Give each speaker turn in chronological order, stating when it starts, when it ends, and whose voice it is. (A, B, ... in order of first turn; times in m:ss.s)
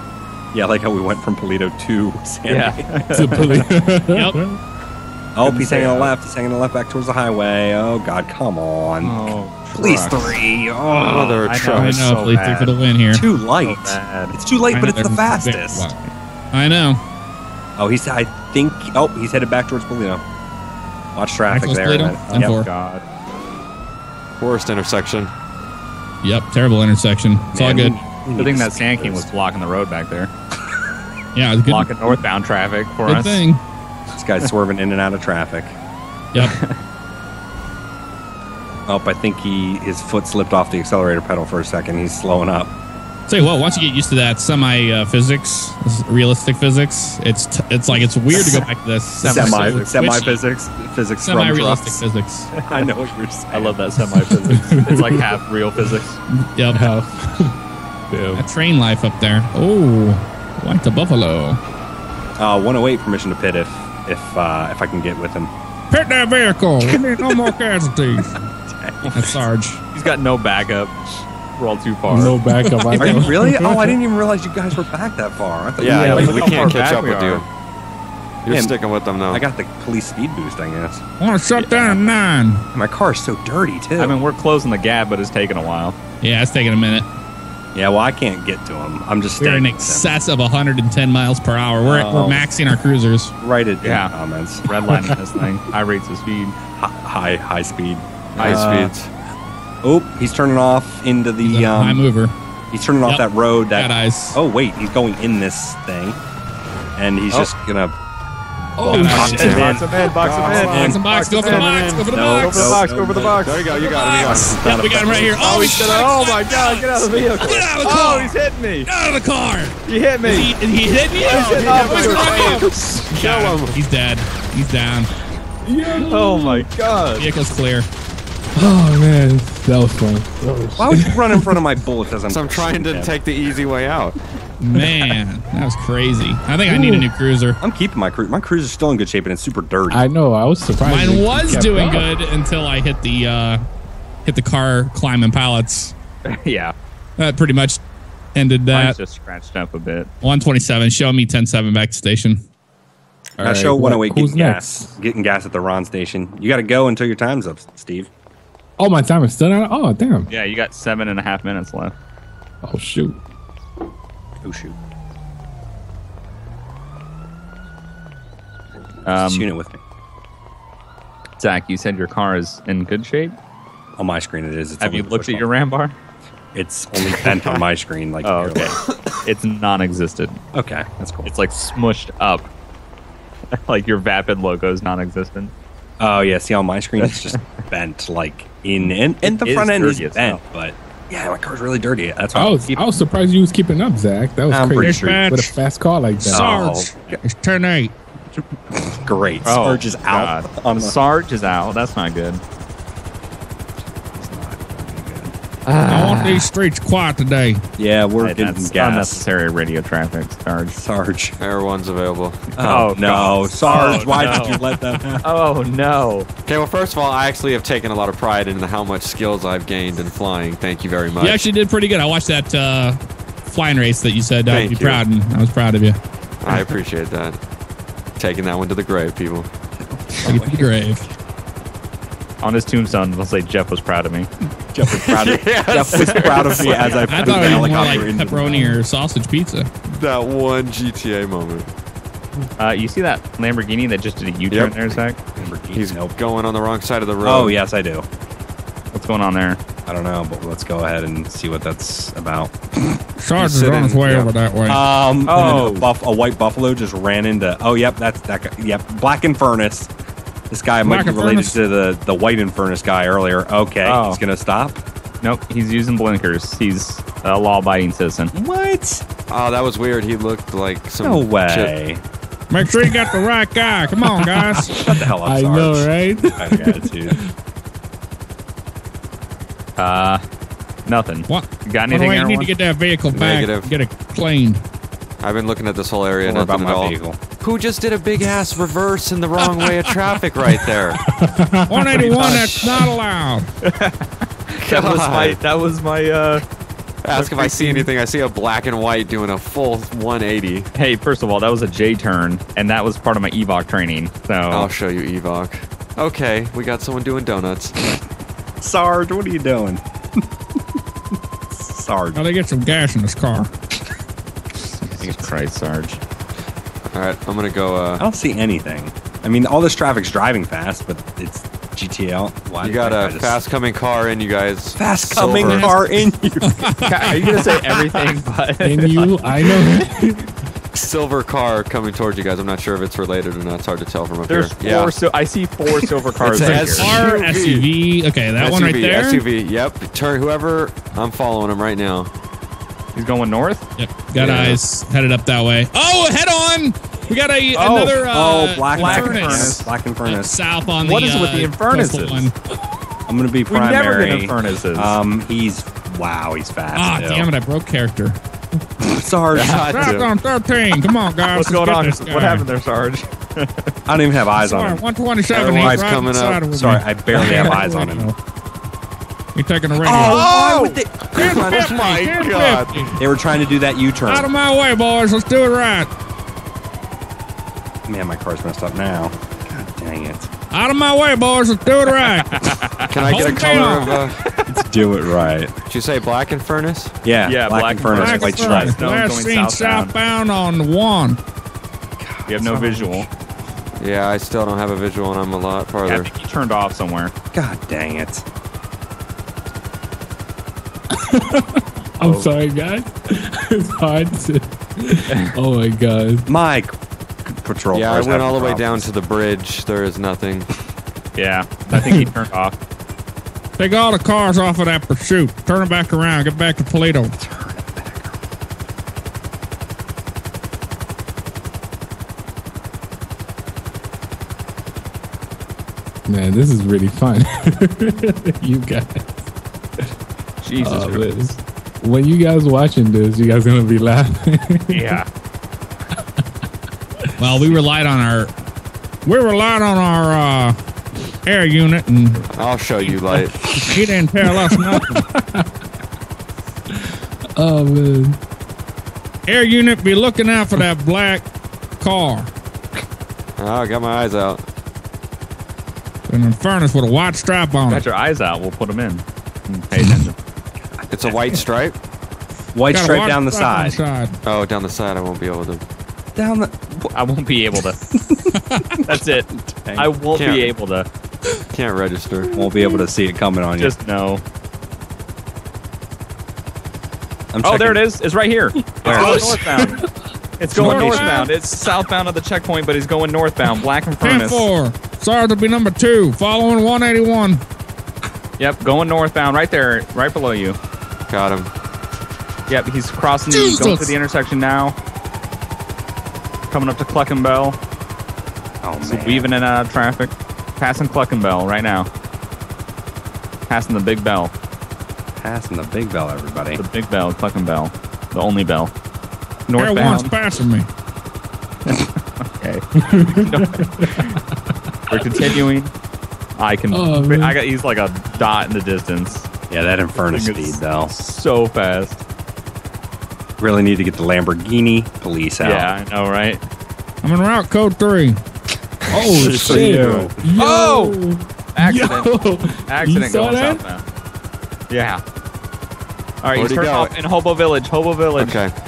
0:00.5-0:03.0 A
0:02.5-0:03.7 B
0:03.1-0:04.6 C
0:05.4-0:11.4 A
0:05.4-0:06.1 B
0:09.0-0:10.3 B
0:11.1-0:12.0 D
0:11.2-0:12.8 B
0:11.8-0:13.2 E
0:13.1-0:15.9 A
0:13.6-0:14.4 B
0:14.7-0:17.0 E
0:17.8-0:20.2 A
0:21.2-0:22.6 A
0:21.5-0:22.7 E
0:22.4-0:23.0 B
0:24.4-0:25.3 D
0:26.2-0:28.0 E
0:27.5-0:29.3 A
0:28.4-0:30.3 B
0:31.4-0:32.2 E
0:31.7-0:33.4 B
0:33.1-0:33.6 E
0:34.1-0:35.8 A
0:36.4-0:36.8 B
0:38.9-0:42.7 A
0:43.3-0:50.4 E
0:49.2-0:49.8 C
0:49.3-0:52.0 A
0:51.2-0:52.5 E
0:52.7-0:53.8 A
0:53.5-0:56.2 B
0:54.4-0:55.3 C
0:56.5-0:56.8 E
0:56.7-0:57.6 C
0:58.1-0:58.5 C
0:58.4-1:01.6 E
1:02.4-1:05.5 A
1:05.9-1:08.4 E
1:08.3-1:09.2 A
1:09.0-1:09.3 B
1:09.2-1:09.8 E
1:09.9-1:12.4 B
1:12.1-1:14.0 C
1:12.6-1:13.4 E
1:13.0-1:16.7 A
1:15.8-1:17.5 D
1:15.9-1:16.7 C
1:16.1-1:17.5 B
1:18.4-1:19.4 D
1:18.5-1:18.7 A
1:19.3-1:21.0 A
1:21.2-1:22.6 E
1:21.6-1:22.1 B
1:22.7-1:24.2 A
1:24.0-1:26.0 B
1:26.2-1:27.1 E
1:27.8-1:30.2 A
1:29.4-1:33.3 E
1:31.8-1:32.5 A
1:33.4-1:34.7 A
1:33.8-1:34.1 B
1:34.7-1:36.6 B
1:36.8-1:38.9 A
1:38.4-1:39.1 D
1:38.4-1:38.7 B
1:39.8-1:42.0 A
1:41.4-1:42.3 E
1:42.7-1:46.2 A
1:43.0-1:44.4 E
1:47.0-1:48.0 A
1:48.8-1:49.5 C
1:48.8-1:49.6 E
1:49.0-1:53.4 A
1:49.1-1:53.7 B
1:49.5-1:49.9 D
1:50.4-1:52.8 E
1:51.5-1:52.1 D
1:53.4-1:54.8 D
1:53.8-2:05.1 E
1:54.2-1:55.7 A
1:55.4-1:58.9 B
1:59.9-2:00.5 B
2:01.2-2:02.6 B
2:01.3-2:03.8 D
2:05.6-2:07.3 B
2:05.8-2:06.7 C
2:07.2-2:07.9 E
2:08.6-2:11.6 C
2:10.8-2:13.2 A
2:12.3-2:14.2 D
2:14.6-2:17.6 E
2:16.6-2:17.1 C
2:17.6-2:20.0 A
2:19.9-2:22.1 C
2:20.8-2:23.6 E
2:24.2-2:25.9 E
2:26.3-2:26.7 B
2:27.2-2:27.8 E
2:28.4-2:29.0 E
2:28.7-2:30.1 B
2:30.2-2:32.4 E
2:33.4-2:35.0 C
2:33.4-2:38.1 A
2:38.8-2:40.3 C
2:40.3-2:41.9 B
2:42.6-2:43.2 C
2:44.4-2:44.8 A
2:49.0-2:49.8 A
2:49.1-2:49.5 B
2:51.4-2:53.4 B
2:54.0-2:55.5 A
2:54.8-2:56.0 B
2:56.5-2:58.8 A
2:57.1-2:57.6 D
2:58.2-3:00.4 B
3:00.5-3:01.3 A
3:01.2-3:02.5 B
3:03.7-3:05.5 B
3:06.0-3:12.8 A
3:07.0-3:07.3 B
3:09.2-3:10.4 B
3:12.4-3:16.5 C
3:14.5-3:15.2 A
3:14.8-3:15.5 E
3:16.2-3:17.9 E
3:16.3-3:17.2 A
3:18.7-3:21.0 A
3:19.4-3:22.4 B
3:24.1-3:25.3 A
3:25.7-3:26.5 B
3:25.9-3:27.6 E
3:27.8-3:29.3 A
3:28.2-3:30.8 B
3:30.7-3:31.4 A
3:31.4-3:32.5 D
3:32.6-3:34.6 B
3:32.6-3:35.3 A
3:35.2-3:36.3 B
3:36.5-3:41.5 D
3:41.2-3:46.0 E
3:44.5-3:45.0 D
3:46.4-3:47.4 D
3:48.2-3:49.5 D
3:49.8-3:50.7 A
3:50.2-3:51.1 E
3:52.4-3:54.3 B
3:54.7-3:58.8 A
3:55.1-3:57.0 D
3:56.0-3:58.0 B
3:57.1-3:59.7 E
3:57.8-3:58.0 D
3:59.9-4:01.7 D
4:02.6-4:05.2 B
4:04.5-4:05.0 D
4:04.9-4:06.2 A
4:05.7-4:07.6 D
4:07.2-4:08.1 A
4:08.9-4:09.6 B
4:09.9-4:19.9 A
4:13.2-4:14.8 E
4:15.3-4:15.9 B
4:20.5-4:24.8 A
4:20.8-4:21.6 E
4:23.8-4:24.2 B
4:25.2-4:28.3 B
4:28.3-4:29.0 A
4:29.3-4:31.7 D
4:31.0-4:32.0 A
4:32.5-4:34.7 E
4:32.6-4:33.1 C
4:34.6-4:37.2 A
4:34.8-4:37.3 C
4:39.8-4:40.2 B
4:40.9-4:42.5 B
4:41.3-4:44.6 E
4:43.1-4:43.7 D
4:45.2-4:51.0 D
4:46.2-4:47.2 A
4:50.9-4:52.0 C
4:51.7-4:53.5 E
4:51.9-4:52.5 B
4:52.0-4:52.4 D
4:53.7-4:54.0 B
4:54.5-4:56.4 B
4:54.6-4:55.4 D
4:57.0-5:00.7 D
4:57.1-4:57.9 B
5:00.8-5:04.7 B
5:04.5-5:07.8 D
5:08.6-5:09.8 A
5:11.5-5:12.2 A
5:12.1-5:13.5 E
5:14.8-5:16.0 B
5:15.0-5:15.3 A
5:16.9-5:18.0 D
5:18.0-5:23.4 A
5:22.6-5:25.8 D
5:24.8-5:26.5 A
5:25.4-5:25.7 E
5:26.5-5:27.1 E
5:26.8-5:29.6 B
5:28.6-5:30.3 C
5:30.8-5:35.0 D
5:34.3-5:37.0 B
5:36.2-5:37.7 D
5:36.8-5:39.2 E
5:38.4-5:42.1 D
5:43.0-5:43.6 B
5:43.8-5:52.3 E
5:44.2-5:44.6 D
5:47.6-5:48.0 B
5:48.1-5:50.4 A
5:48.8-5:49.7 B
5:50.8-5:52.3 B
5:53.1-5:57.3 A
5:53.5-5:55.0 B
5:56.8-5:58.2 E
5:58.8-6:00.0 A
5:59.3-5:59.7 B
5:59.4-6:00.1 D
5:59.7-6:02.5 E
6:01.2-6:03.7 B
6:03.9-6:05.9 A
6:04.4-6:08.2 E
6:05.4-6:06.5 D
6:06.5-6:08.1 A
6:07.1-6:07.7 B
6:07.2-6:07.6 D
6:09.4-6:10.3 E
6:09.8-6:11.7 A
6:09.9-6:10.8 B
6:11.1-6:12.8 D
6:11.2-6:12.9 E
6:13.0-6:14.3 A
6:14.1-6:15.9 E
6:17.9-6:20.3 A
6:20.5-6:22.5 E
6:21.9-6:24.0 B
6:22.9-6:24.2 D
6:23.0-6:23.9 E
6:24.5-6:25.5 A
6:25.7-6:27.0 D
6:27.0-6:28.8 A
6:27.2-6:29.9 B
6:27.9-6:31.2 E
6:32.0-6:33.1 A
6:32.3-6:33.1 B
6:33.8-6:36.1 D
6:35.9-6:37.1 B
6:37.3-6:38.2 A
6:40.9-6:46.3 C
6:42.0-6:42.3 B
6:46.3-6:46.7 A
6:47.3-6:48.9 A
6:47.7-6:50.5 D
6:51.2-6:52.6 B
6:51.7-6:52.0 C
6:53.6-6:57.1 E
6:57.2-6:58.1 A
7:06.1-7:09.1 C
7:10.4-7:11.3 B
7:10.6-7:15.0 C
7:14.7-7:15.1 B
7:17.2-7:18.3 E
7:19.0-7:20.6 E
7:21.2-7:22.2 E
7:22.3-7:23.4 D
7:23.7-7:25.0 E
7:24.2-7:25.5 C
7:27.4-7:28.2 C
7:29.3-7:31.3 E
7:31.8-7:32.3 E
7:33.4-7:34.4 D
7:36.1-7:37.8 E
7:37.7-7:40.2 B
7:40.6-7:41.4 A
7:40.9-7:41.8 D
7:42.5-7:43.8 A
7:42.7-7:44.2 E
7:44.2-7:45.6 D
7:46.2-7:46.9 A
7:46.9-7:47.8 B
7:47.9-7:48.3 A
7:48.4-7:48.8 E
7:48.8-7:50.9 B
7:49.3-7:49.9 A
7:50.1-7:50.6 D
7:51.5-7:52.3 D
7:52.3-7:52.8 C
7:52.4-7:53.7 A
7:53.6-7:54.2 B
7:57.3-7:57.8 A
7:57.4-7:59.8 B
7:58.8-7:59.9 C
7:58.9-7:59.2 A
8:00.4-8:04.5 B
8:00.5-8:01.3 A
8:00.6-8:01.3 E
8:04.0-8:07.4 E
8:08.4-8:10.6 B
8:11.1-8:11.5 D
8:12.5-8:14.8 B
8:13.3-8:14.0 E
8:16.5-8:17.6 B
8:18.6-8:19.3 A
8:18.8-8:21.9 B
8:23.5-8:24.3 B
8:25.2-8:26.6 A
8:26.6-8:28.7 B
8:29.5-8:30.1 B
8:29.6-8:30.7 E
8:31.7-8:32.7 B
8:32.8-8:34.0 C
8:33.2-8:34.2 B
8:34.9-8:35.7 B
8:34.9-8:35.2 C
8:36.4-8:39.3 B
8:36.7-8:37.4 C
8:39.5-8:40.9 A
8:40.0-8:42.0 B
8:43.4-8:45.7 A
8:45.4-8:46.4 B
8:47.0-8:48.2 E
8:48.9-8:50.2 D
8:48.9-8:53.6 C
8:49.3-8:50.1 A
8:50.3-8:51.0 B
8:51.5-8:53.8 B
8:54.7-8:55.0 B
8:56.2-8:58.4 B
8:56.3-8:56.9 D
8:58.2-8:58.5 D